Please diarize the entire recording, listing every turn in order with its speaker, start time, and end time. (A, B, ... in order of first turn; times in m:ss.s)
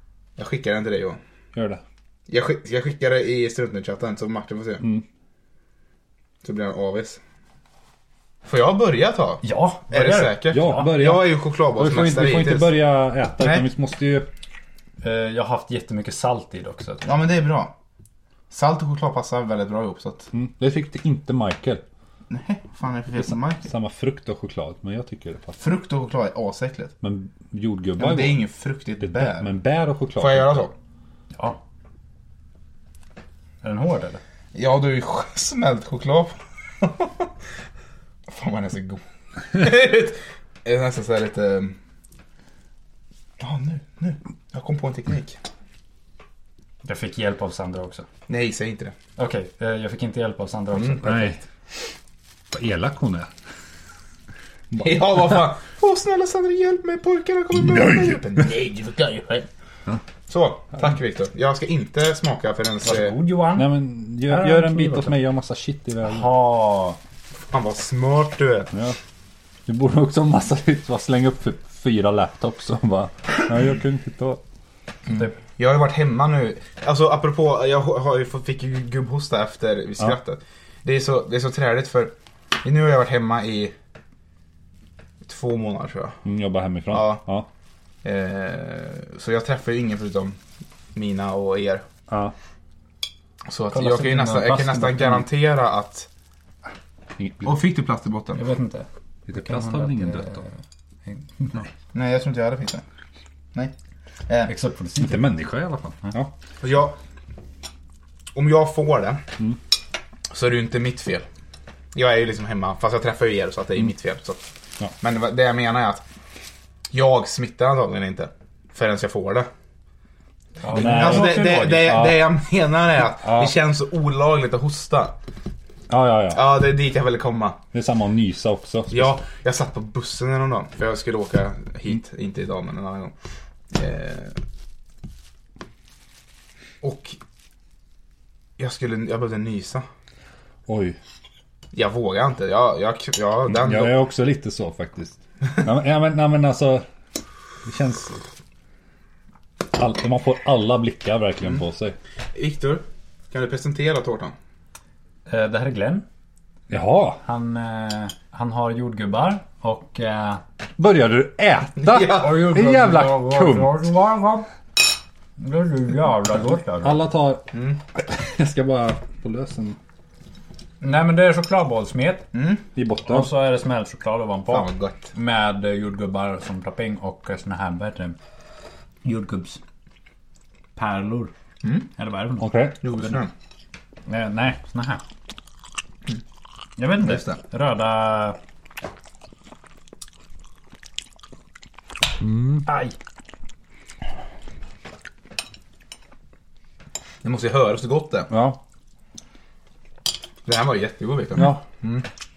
0:00.4-0:01.2 A
0:01.5-0:01.8 B
0:02.3-0:04.8 A
0:06.4-0:07.2 A
0:08.4-0:12.8 A
0:09.4-0:11.0 C
0:10.5-0:14.3 B
0:13.4-0:13.7 A
0:15.0-0:17.1 C
0:17.0-0:17.7 A
0:18.5-0:20.3 A
0:20.3-0:21.8 B
0:22.3-0:23.6 A
0:23.2-0:25.6 B
0:25.6-0:26.9 A
0:27.0-0:28.4 B
0:28.0-0:29.5 A
0:29.0-0:30.7 B
0:30.2-0:30.7 A
0:33.6-0:34.2 C
0:34.5-0:37.1 A
0:38.3-0:39.0 A
0:39.5-0:41.8 A
0:43.4-0:45.4 A
0:46.8-0:48.0 C
0:48.3-0:48.9 A
0:49.2-0:51.3 C
0:50.7-0:51.4 A
0:51.0-0:51.4 B
0:52.5-0:53.3 B
0:54.7-0:59.5 A
0:57.7-0:58.1 B
1:00.3-1:03.1 A
1:02.8-1:03.7 C
1:03.5-1:06.4 B
1:04.2-1:05.1 C
1:06.0-1:07.0 C
1:07.5-1:08.7 A
1:08.7-1:09.0 B
1:09.7-1:14.4 B
1:15.1-1:23.7 A
1:25.2-1:26.2 A
1:26.2-1:27.5 B
1:26.9-1:27.2 A
1:28.0-1:30.4 A
1:30.9-1:31.8 A
1:32.1-1:32.3 B
1:33.5-1:36.1 A
1:33.7-1:35.3 C
1:37.2-1:37.5 B
1:37.4-1:38.4 A
1:38.3-1:40.5 C
1:39.3-1:40.4 B
1:41.1-1:41.6 C
1:41.9-1:42.8 A
1:44.5-1:45.2 C
1:45.0-1:46.3 B
1:46.6-1:47.0 A
1:48.3-1:49.2 A
1:50.3-1:51.2 A
1:51.9-1:54.4 A
1:55.0-1:56.0 A
1:56.9-1:59.5 A
2:00.6-2:02.1 C
2:00.7-2:02.2 B
2:00.7-2:05.2 A
2:03.2-2:03.5 B
2:05.9-2:06.5 B
2:06.3-2:07.6 A
2:07.7-2:09.2 B
2:08.9-2:13.1 A
2:13.7-2:14.4 A
2:16.8-2:17.2 A
2:18.6-2:19.8 A
2:20.7-2:21.0 B
2:21.7-2:24.0 A
2:23.5-2:26.8 B
2:27.6-2:28.2 B
2:29.7-2:32.0 B
2:32.3-2:34.3 A
2:35.3-2:36.0 C
2:36.7-2:37.2 B
2:37.2-2:40.4 C
2:40.8-2:43.8 B
2:41.8-2:42.4 A
2:42.0-2:44.5 C
2:45.4-2:47.0 C
2:46.8-2:49.8 B
2:47.5-2:47.8 A
2:50.8-2:52.2 C
2:52.3-2:52.6 A
2:52.7-2:53.3 B
2:53.0-2:58.2 C
2:54.5-2:55.1 A
2:59.0-2:59.6 C
3:00.8-3:01.3 C
3:01.6-3:01.9 A
3:02.0-3:02.5 C
3:02.4-3:02.8 B
3:02.8-3:03.3 A
3:04.0-3:05.0 C
3:06.8-3:08.4 C
3:07.0-3:07.4 A
3:12.2-3:12.7 B
3:12.6-3:12.9 C
3:17.2-3:18.3 A
3:18.3-3:18.6 B
3:20.4-3:22.0 A
3:21.4-3:21.6 B